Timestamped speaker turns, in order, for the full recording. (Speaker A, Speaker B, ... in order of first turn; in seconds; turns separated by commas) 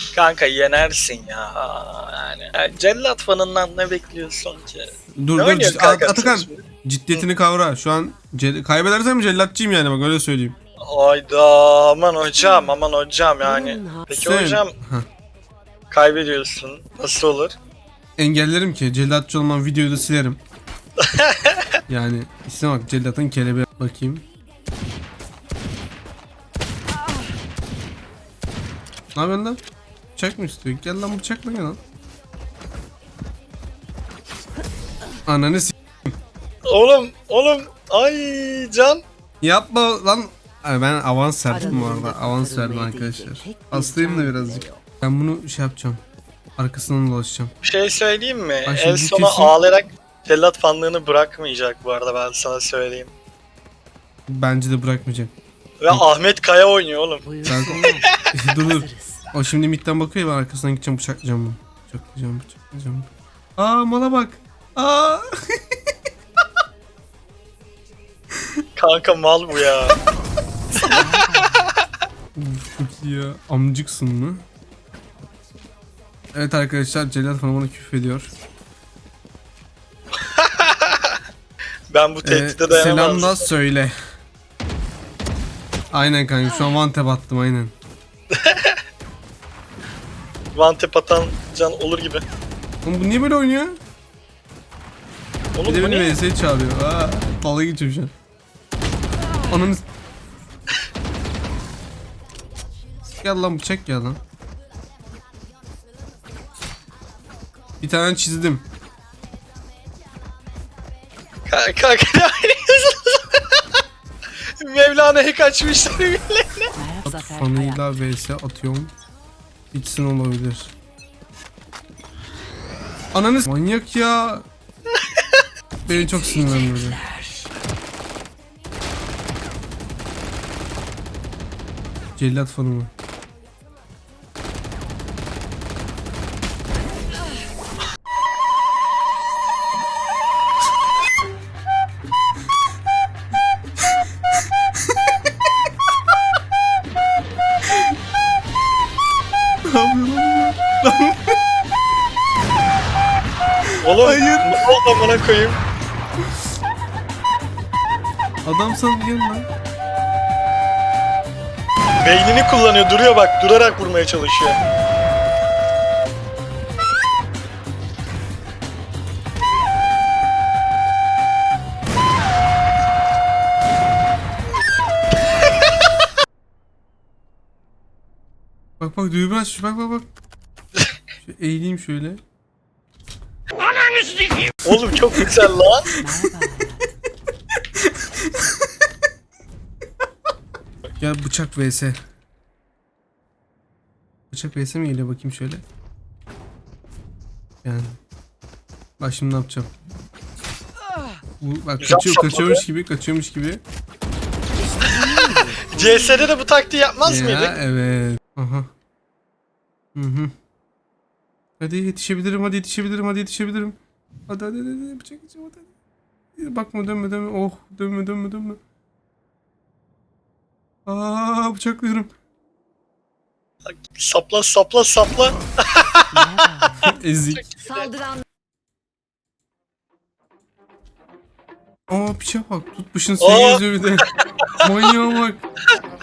Speaker A: 0.1-7.2, Speaker B: 5.1-10.6, Speaker A: 10.8-14.7, Speaker C: 13.4-14.1, Speaker B: 14.1-15.1, Speaker A: 15.9-17.5, Speaker B: 18.2-20.4, Speaker A: 21.0-21.6, Speaker B: 21.9-24.2, Speaker B: 29.1-29.6, Speaker B: 30.1-31.8, Speaker B: 35.2-36.1, Speaker A: 36.7-39.0, Speaker B: 39.4-46.0, Speaker C: 41.5-44.8, Speaker B: 46.6-47.5, Speaker A: 47.6-53.1, Speaker B: 48.6-49.5, Speaker B: 54.3-55.3, Speaker A: 55.8-57.2, Speaker C: 57.2-58.1, Speaker B: 57.5-65.7, Speaker C: 58.6-59.2, Speaker A: 68.8-70.0, Speaker A: 70.7-71.1, Speaker C: 70.8-71.7, Speaker B: 72.3-74.4, Speaker B: 76.3-78.3, Speaker A: 80.2-81.2, Speaker A: 81.9-83.5, Speaker B: 82.2-84.0, Speaker B: 85.9-87.7, Speaker A: 88.3-88.8, Speaker A: 90.5-92.2, Speaker B: 92.8-93.8, Speaker A: 95.5-96.2, Speaker B: 95.6-98.1, Speaker B: 99.5-99.8, Speaker B: 103.2-104.2, Speaker B: 107.8-108.6, Speaker A: 111.5-113.5, Speaker A: 114.6-116.7, Speaker C: 116.7-117.8, Speaker B: 117.0-118.9, Speaker B: 119.7-120.7, Speaker B: 123.1-124.5, Speaker B: 125.8-127.0, Speaker C: 125.9-127.4, Speaker B: 132.2-132.9, Speaker B: 149.6-151.4, Speaker A: 153.8-155.6, Speaker B: 154.0-154.7, Speaker B: 158.4-159.5, Speaker A: 162.0-164.6, Speaker B: 178.8-180.1, Speaker B: 181.2-182.2, Speaker A: 184.6-185.9, Speaker C: 186.0-186.9, Speaker B: 187.9-188.3, Speaker B: 191.0-192.0, Speaker B: 194.3-195.6, Speaker B: 197.6-198.0, Speaker B: 199.0-199.7, Speaker B: 201.4-203.6, Speaker A: 201.8-202.6, Speaker C: 204.7-205.8, Speaker A: 204.8-207.6, Speaker B: 207.1-208.7, Speaker B: 209.9-210.3, Speaker B: 211.6-215.7, Speaker B: 216.3-218.6, Speaker B: 220.8-222.1, Speaker A: 223.8-226.2, Speaker C: 226.1-226.9, Speaker B: 226.8-227.5, Speaker B: 231.9-234.0, Speaker A: 233.2-233.6, Speaker B: 234.6-235.4